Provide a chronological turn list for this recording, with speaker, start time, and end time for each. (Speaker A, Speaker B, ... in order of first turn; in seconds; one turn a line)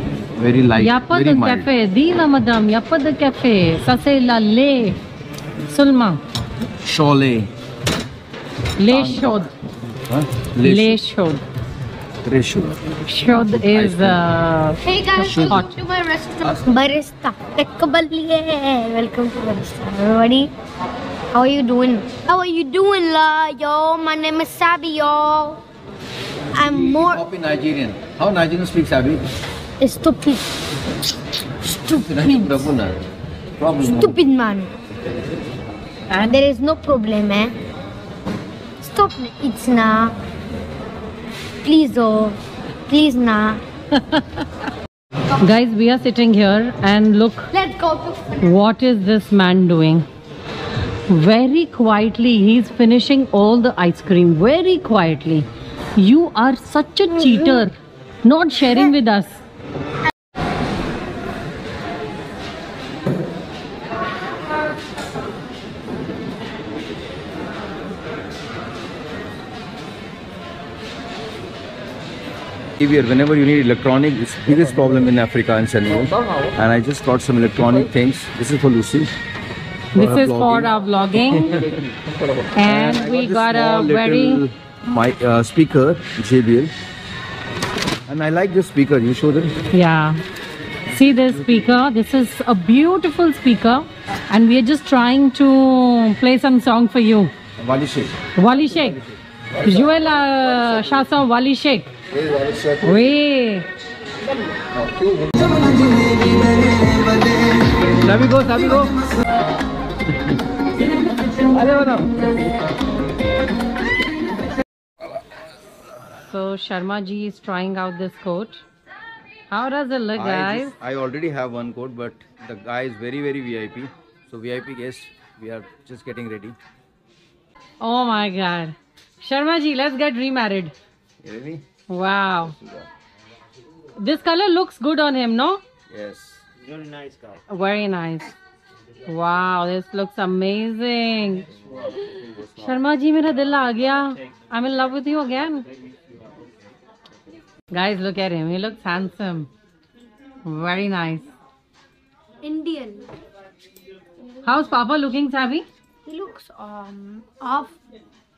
Speaker A: 0.3-1.7
Speaker B: 0.8-5.0
Speaker B: 5.7-6.2
Speaker A: 6.8-7.5
Speaker B: 8.8-9.5
Speaker A: 8.8-9.4
Speaker A: 10.1-11.0
Speaker B: 10.6-11.4
Speaker A: 12.2-12.8
Speaker B: 13.0-14.8
Speaker A: 13.4-14.2
Speaker C: 14.8-20.5
Speaker A: 15.2-15.6
Speaker B: 15.4-15.8
Speaker A: 16.4-16.7
Speaker C: 21.3-25.6
Speaker C: 26.5-27.2
Speaker A: 27.0-29.2
Speaker C: 29.8-30.5
Speaker C: 31.6-32.7
Speaker A: 31.8-33.0
Speaker A: 33.6-34.2
Speaker C: 33.9-34.7
Speaker C: 36.1-37.5
Speaker C: 38.8-40.1
Speaker C: 41.6-42.4
Speaker C: 42.9-43.6
Speaker B: 45.4-47.5
Speaker C: 47.5-48.4
Speaker B: 48.4-50.0
Speaker B: 51.1-59.4
Speaker A: 72.8-79.1
Speaker B: 79.9-81.6
Speaker A: 79.9-80.7
Speaker A: 81.2-81.8
Speaker B: 82.5-84.4
Speaker A: 82.6-86.7
Speaker A: 88.1-89.5
Speaker B: 89.7-90.2
Speaker B: 90.9-97.3
Speaker A: 97.6-98.1
Speaker B: 98.4-99.0
Speaker B: 99.6-101.9
Speaker A: 102.1-102.9
Speaker B: 102.8-103.7
Speaker A: 104.8-105.5
Speaker B: 108.0-108.9
Speaker A: 108.1-108.8
Speaker A: 111.5-112.2
Speaker B: 116.2-118.6
Speaker B: 119.5-120.7
Speaker A: 120.1-126.5
Speaker B: 127.8-130.7
Speaker A: 131.2-131.6
Speaker B: 131.9-132.5
Speaker A: 132.3-132.9
Speaker B: 134.0-135.6
Speaker A: 135.9-136.4
Speaker B: 137.5-138.3
Speaker B: 139.1-141.4
Speaker B: 142.5-145.6
Speaker B: 147.7-149.5
Speaker B: 150.4-151.3
Speaker C: 152.4-153.1
Speaker B: 154.4-155.7
Speaker C: 156.1-157.8